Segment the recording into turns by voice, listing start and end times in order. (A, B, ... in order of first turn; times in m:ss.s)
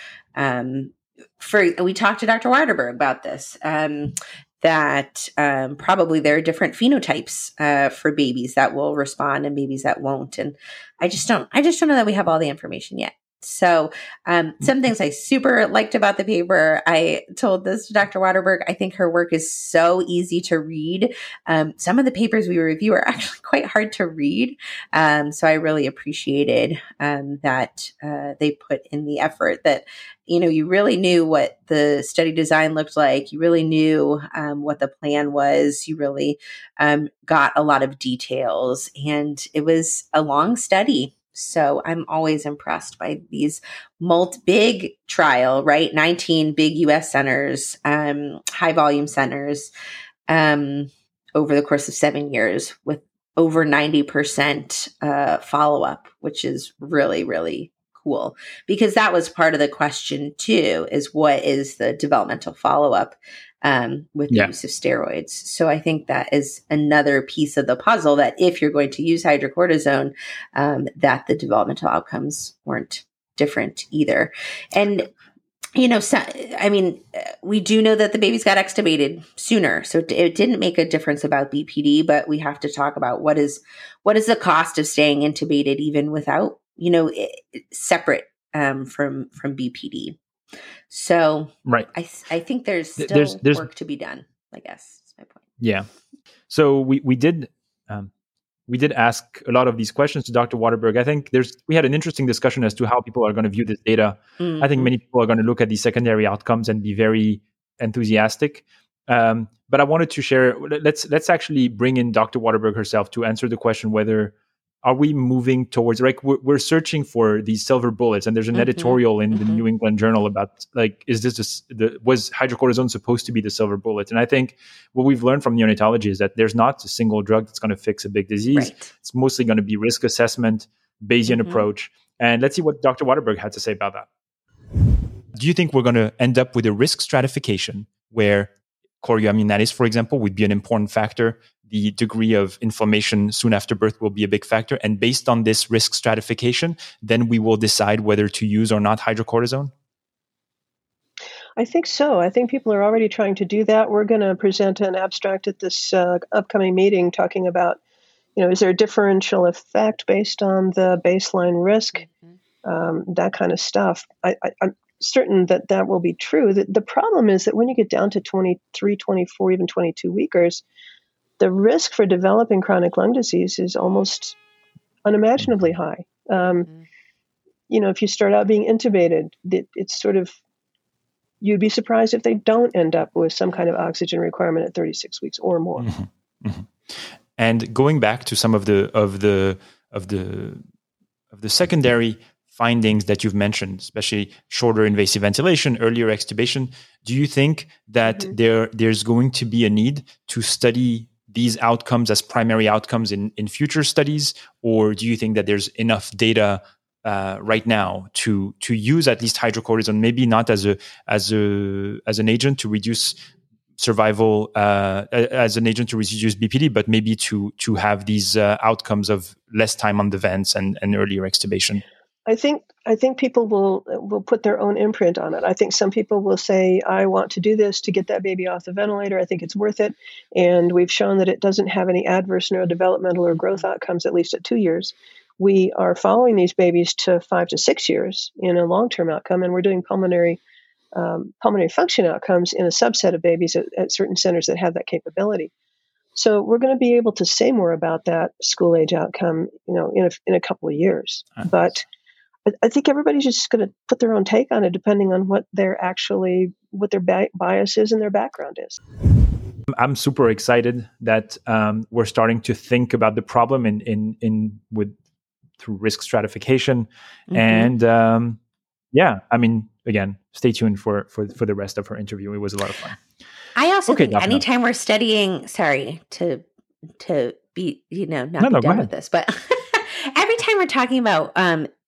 0:00.4-0:49.7 A
0:50.3-1:15.1 A
1:15.8-1:30.2 A
1:30.9-1:35.4 A
1:33.0-1:33.7 B
1:35.6-1:35.9 B
1:36.5-1:38.1 B
1:38.7-2:14.1 B
1:44.4-1:44.7 A
1:58.6-1:59.6 A
2:08.5-2:08.9 A
2:11.3-2:11.6 A
2:15.4-2:29.7 B
2:31.6-2:37.8 C
2:38.4-2:42.1 C
2:42.6-2:50.6 C
2:51.4-2:54.4 C
2:55.1-2:56.7 C
2:57.7-3:00.4 C
3:01.4-3:05.9 C
3:05.8-3:10.6 B
3:11.3-3:33.2 B
3:33.8-3:41.8 B
3:42.3-4:00.4 C
4:00.9-4:05.5 C
4:06.2-4:11.9 C
4:12.5-4:18.8 C
4:19.7-4:25.0 B
4:25.6-4:28.4 B
4:27.3-4:27.7 A
4:28.9-4:33.0 B
4:33.6-4:36.4 A
4:33.9-4:34.4 B
4:37.0-4:41.7 A
4:38.4-4:38.9 B